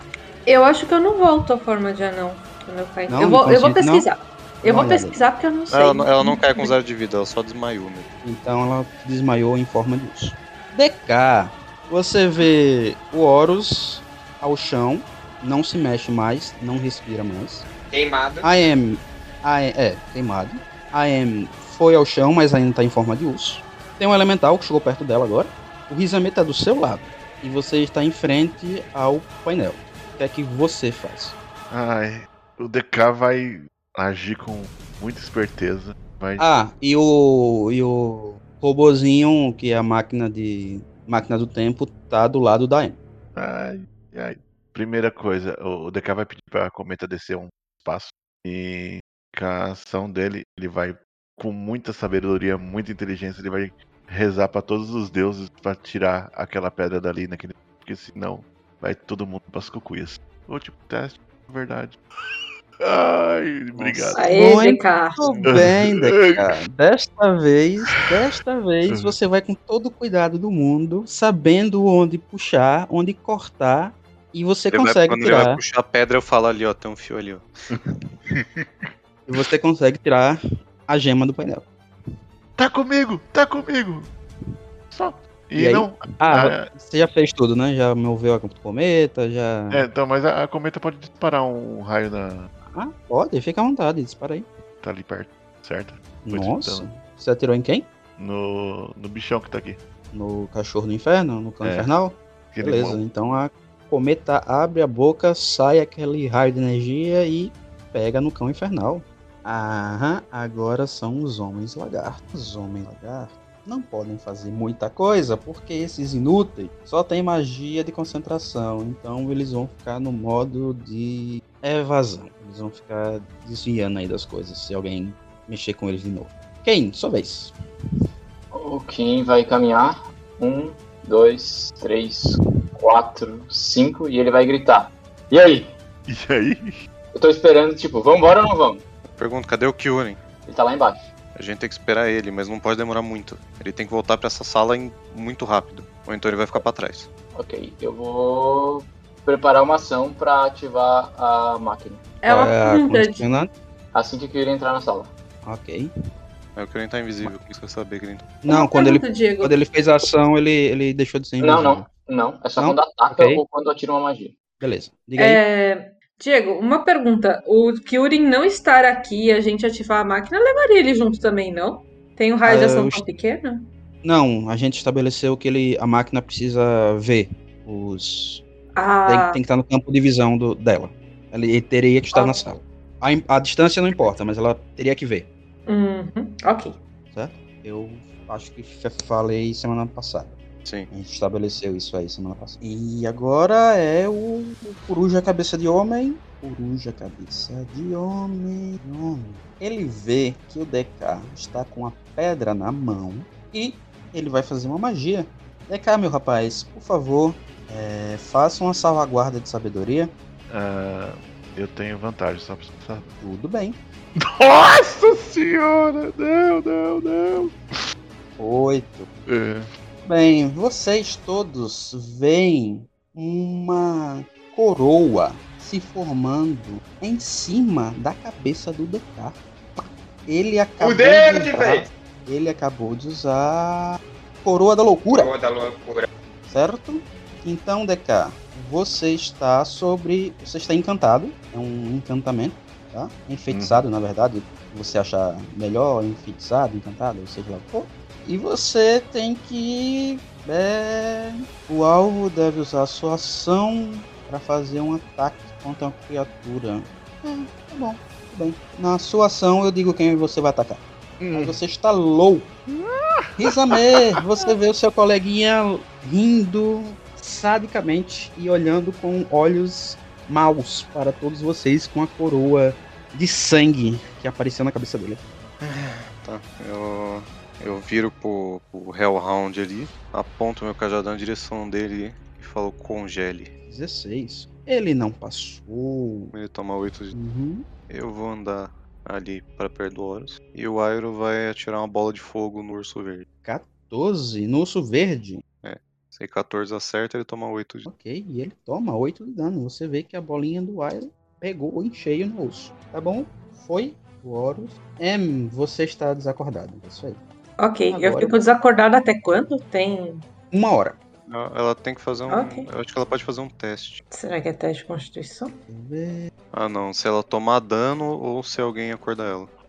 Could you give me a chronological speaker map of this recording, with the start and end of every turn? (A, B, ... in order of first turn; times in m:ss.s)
0:00.5-0:06.7 A
0:03.1-0:04.1 B
0:04.6-0:05.2 B
0:05.7-0:08.1 C
0:08.2-0:17.7 B
0:17.9-0:18.5 D
0:18.4-0:31.4 B
0:31.7-0:36.4 E
0:36.4-0:43.0 B
0:43.4-1:04.3 E
1:03.8-1:15.6 B
1:04.2-1:05.2 A
1:05.2-1:05.6 C
1:05.4-1:06.5 E
1:08.9-1:09.1 E
1:14.7-1:17.5 C
1:18.3-1:18.7 E
1:19.3-1:21.7 B
1:22.6-1:24.1 E
1:24.9-1:26.7 E
1:25.6-1:29.8 B
1:29.7-1:32.5 E
1:32.7-1:34.5 B
1:34.8-1:36.8 E
1:36.2-1:37.9 B
1:38.2-1:39.8 E
1:40.1-2:07.5 B
1:41.6-1:41.9 E
1:42.5-1:43.0 E
2:08.5-2:15.7 F
2:16.1-2:16.8 E
2:17.1-2:18.8 F
2:19.1-2:20.2 C
2:20.5-2:21.0 F
2:21.4-2:27.1 C
2:27.4-2:32.0 F
2:32.2-2:33.2 A
2:32.3-2:33.5 B
2:33.9-2:35.1 F
2:35.4-2:35.9 B
2:36.6-2:38.3 C
2:38.4-2:41.9 B
2:38.5-2:39.6 A
2:41.4-2:44.4 F
2:42.6-2:43.4 B
2:44.6-2:45.4 B
2:45.2-2:53.7 A
2:52.5-2:53.0 B
2:54.0-2:58.4 B
2:58.8-2:59.4 A
2:59.1-3:05.3 B
3:02.1-3:02.4 A
3:05.7-3:06.8 A
3:07.1-3:10.4 B
3:10.9-3:30.1 B
3:30.5-3:33.1 E
3:33.2-3:33.8 B
3:34.2-3:37.5 E
3:38.4-3:39.1 B
3:39.3-3:39.7 E
3:40.1-3:55.3 B
3:50.8-3:51.9 D
3:55.1-3:56.1 D
3:56.5-4:20.8 B
4:03.5-4:03.8 E
4:21.2-4:21.6 E
4:21.3-4:22.5 B
4:22.7-4:23.3 E
4:23.4-4:35.2 B
4:35.6-4:43.5 C
4:43.7-4:46.3 B
4:46.3-4:47.2 C
4:47.1-4:47.7 B
4:47.9-4:53.3 C
4:53.4-4:55.4 B
4:55.6-4:57.9 C
4:57.8-5:07.2 B
5:07.6-5:10.2 A
5:07.9-5:08.4 B
5:10.5-5:11.0 B
5:11.3-5:14.0 C
5:12.3-5:12.7 A
5:14.1-5:15.6 A
5:15.7-5:16.3 B
5:16.5-5:19.5 C